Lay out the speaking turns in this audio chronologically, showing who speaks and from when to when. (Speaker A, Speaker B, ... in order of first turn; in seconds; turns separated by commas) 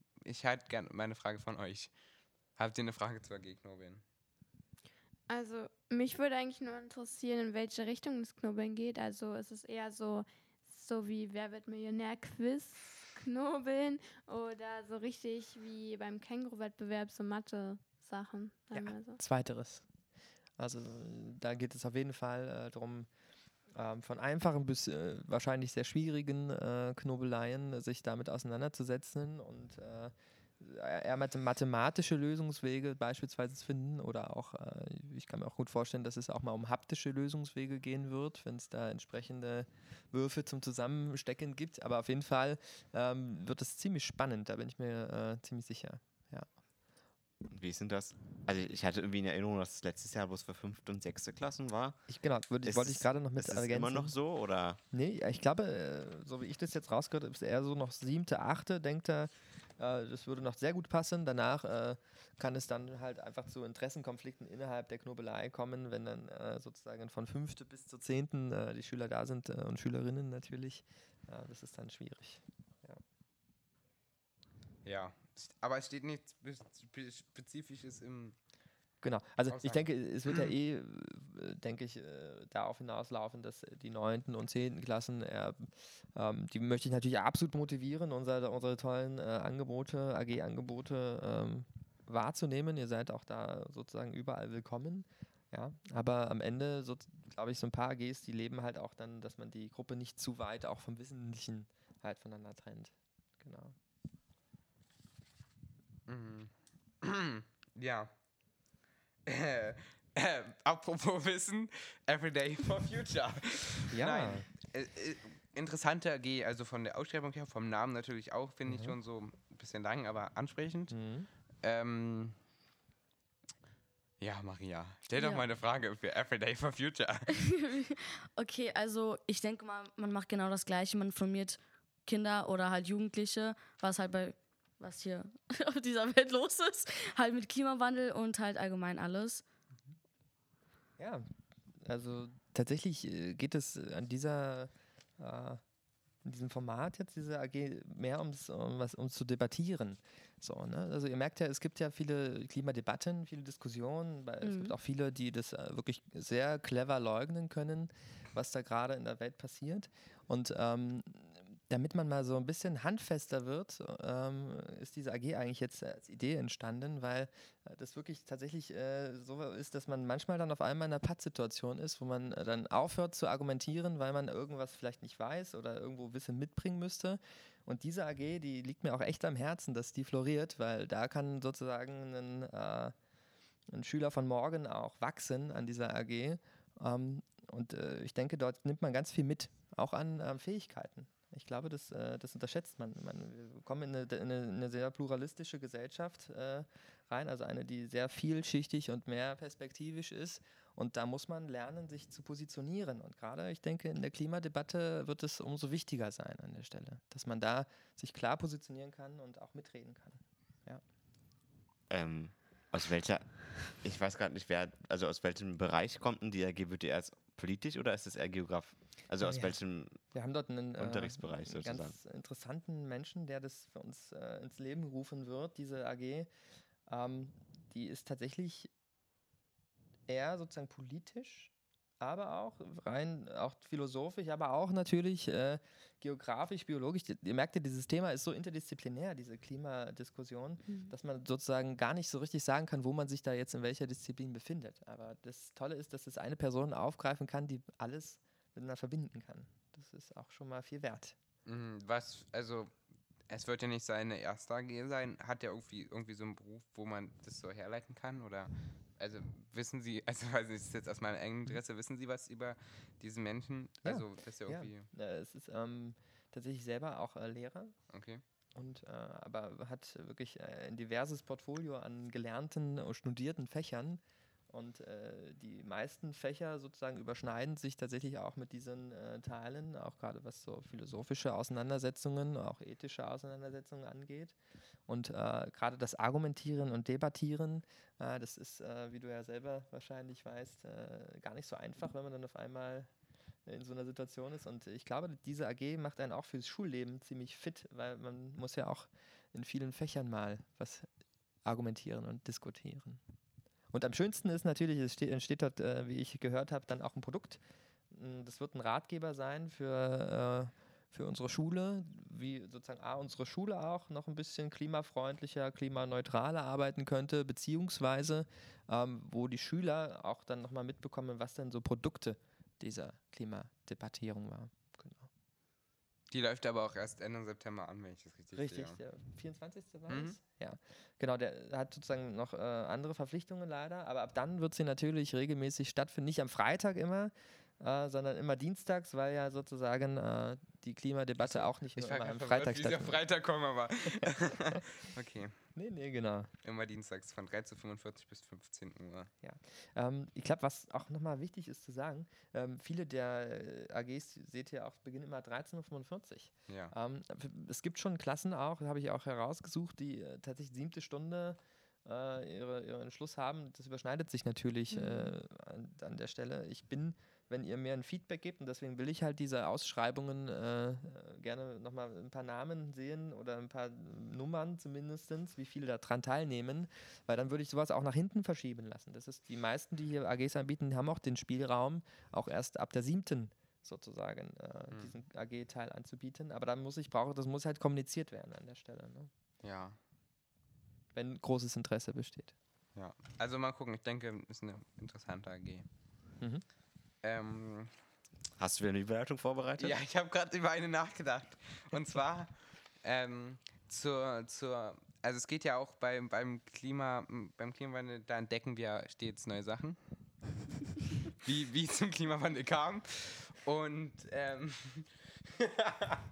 Speaker A: 0.2-1.9, Speaker A: 2.6-4.0, Speaker B: 5.3-19.2, Speaker C: 18.7-19.8, Speaker C: 20.6-23.1, Speaker C: 23.7-46.5, Speaker D: 47.5-52.1, Speaker C: 52.1-54.1, Speaker D: 52.6-54.8, Speaker C: 54.9-73.0, Speaker A: 74.8-78.4, Speaker C: 79.0-103.8, Speaker A: 79.5-80.5, Speaker A: 106.1-108.1, Speaker A: 109.3-121.0, Speaker C: 113.9-114.5, Speaker C: 118.7-119.0, Speaker C: 120.9-121.3, Speaker A: 121.6-122.4, Speaker A: 124.2-127.4, Speaker E: 125.2-125.5, Speaker E: 127.3-139.4, Speaker C: 141.0-141.3, Speaker C: 141.8-145.6, Speaker C: 146.2-182.9, Speaker E: 154.4-154.8, Speaker C: 183.7-210.8, Speaker D: 211.9-220.0, Speaker C: 219.2-219.6, Speaker C: 220.1-226.3, Speaker D: 220.8-221.9, Speaker C: 226.9-228.7, Speaker C: 230.1-251.2, Speaker E: 240.7-240.9, Speaker A: 251.5-252.7, Speaker A: 253.3-264.9, Speaker C: 263.9-267.8, Speaker A: 267.9-268.2, Speaker C: 268.6-284.4, Speaker C: 284.9-292.9, Speaker C: 293.5-300.9, Speaker C: 301.4-303.0, Speaker C: 303.7-325.1, Speaker A: 326.1-328.8, Speaker C: 328.4-343.0, Speaker A: 329.9-330.2, Speaker A: 341.2-345.4, Speaker C: 345.6-346.3, Speaker A: 346.4-349.1, Speaker C: 349.2-389.1, Speaker A: 356.5-356.7, Speaker E: 364.7-365.1, Speaker A: 389.4-389.8, Speaker C: 390.9-392.3, Speaker A: 392.8-395.7, Speaker A: 397.0-397.7, Speaker D: 398.4-399.8, Speaker A: 399.6-402.3, Speaker A: 402.8-409.8, Speaker A: 411.2-416.0